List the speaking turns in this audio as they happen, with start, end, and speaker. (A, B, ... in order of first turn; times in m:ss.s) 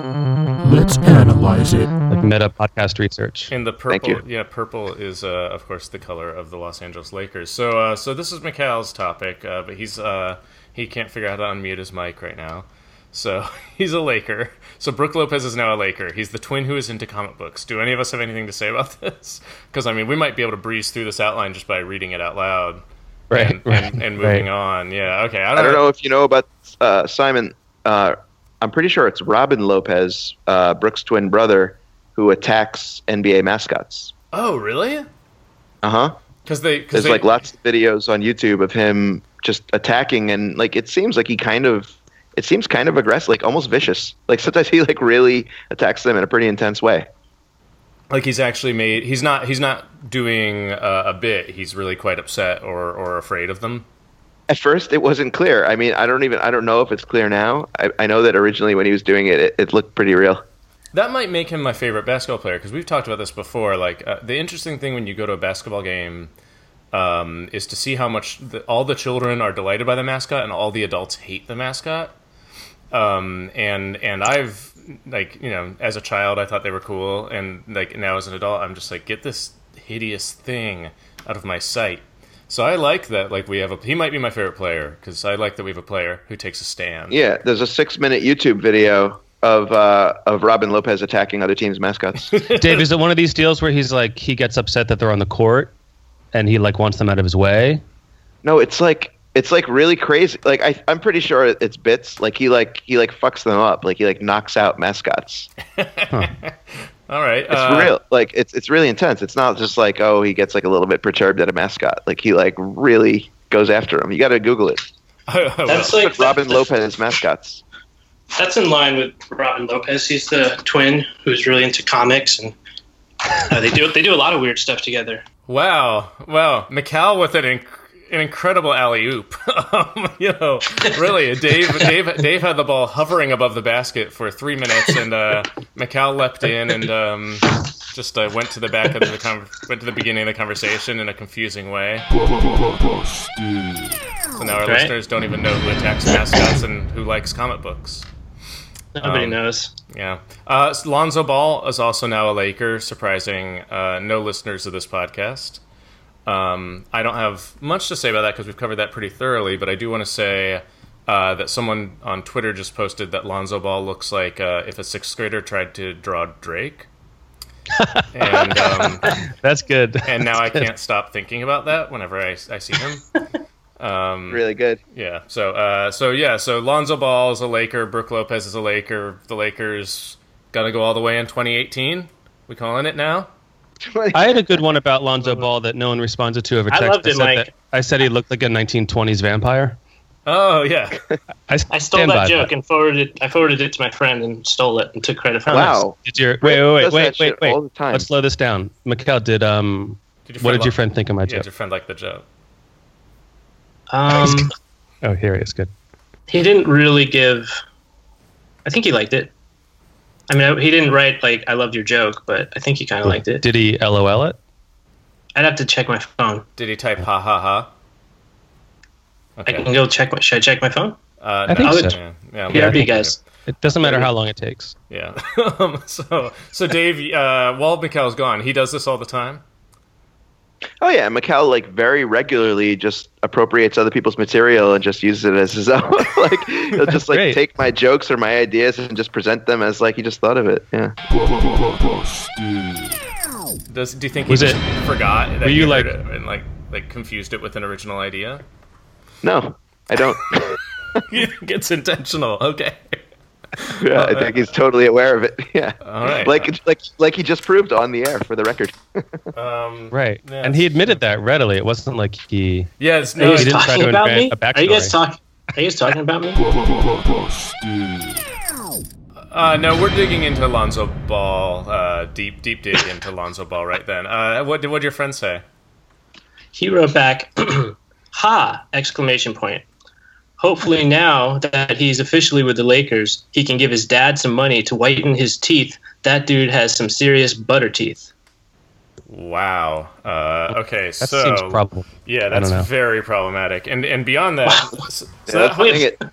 0:00.6-0:02.0 A
0:02.1-0:03.5 B
0:03.5-0:25.8 C
0:03.9-0:04.2 D
0:23.3-0:24.5 B
0:25.6-0:34.1 D
0:34.3-0:35.1 C
0:35.8-0:36.2 D
0:36.4-0:37.3 C
0:36.9-0:47.1 D
0:48.1-0:53.9 C
0:54.5-1:00.4 D
1:00.9-1:06.3 C
1:06.9-1:12.1 C
1:12.9-1:27.2 C
1:27.1-1:32.4 D
1:32.3-1:32.8 C
1:32.5-1:35.7 B
1:36.3-1:37.8 B
1:38.4-1:45.5 D
1:45.8-1:48.0 C
1:47.5-1:54.8 D
1:55.3-1:56.1 C
1:55.7-1:56.7 E
1:55.9-1:57.6 D
1:58.3-2:02.5 E
2:03.4-2:05.2 E
2:05.5-2:22.1 C
2:22.1-2:24.1 A
2:24.4-2:28.1 C
2:24.7-2:24.9 E
2:29.0-2:29.7 E
2:29.0-2:29.4 C
2:29.9-2:35.6 C
2:36.2-2:46.9 C
2:47.7-2:50.7 B
2:48.1-2:49.1 C
2:50.0-2:53.1 C
2:53.8-3:03.3 C
2:54.3-2:54.8 D
3:03.8-3:04.5 D
3:04.1-3:09.8 B
3:06.7-3:07.5 E
3:10.2-3:11.0 C
3:11.5-3:12.5 B
3:11.7-3:15.8 E
3:15.5-3:18.1 D
3:15.5-3:21.5 B
3:20.3-3:22.2 C
3:23.9-3:24.5 E
3:24.1-3:24.5 B
3:25.0-3:25.7 B
3:26.3-3:27.6 E
3:28.6-3:29.3 E
3:30.3-3:33.4 E
3:33.0-3:34.4 B
3:35.4-3:36.4 E
3:36.6-3:37.7 C
3:39.4-3:39.7 C
3:39.5-3:41.0 E
3:41.2-3:43.2 C
3:41.5-3:41.9 B
3:41.6-3:42.0 E
3:42.5-3:43.2 E
3:42.5-3:44.8 B
3:44.9-3:49.4 C
3:50.8-4:01.0 D
3:56.8-3:57.4 B
4:01.1-4:03.1 A
4:03.7-4:08.4 C
4:04.3-4:04.6 B
4:05.4-4:05.9 B
4:09.2-4:10.6 D
4:11.1-4:13.0 C
4:13.6-4:14.4 C
4:13.8-4:19.2 D
4:15.8-4:16.5 C
4:19.3-4:21.0 C
4:19.9-4:22.7 B
4:22.8-4:23.8 C
4:23.2-4:26.4 E
4:23.2-4:25.0 B
4:26.4-4:28.3 A
4:29.3-4:35.4 C
4:36.5-4:39.6 E
4:40.4-4:48.1 E
4:49.1-4:55.9 C
4:51.0-4:52.7 B
4:55.3-4:56.0 D
4:55.6-4:55.9 E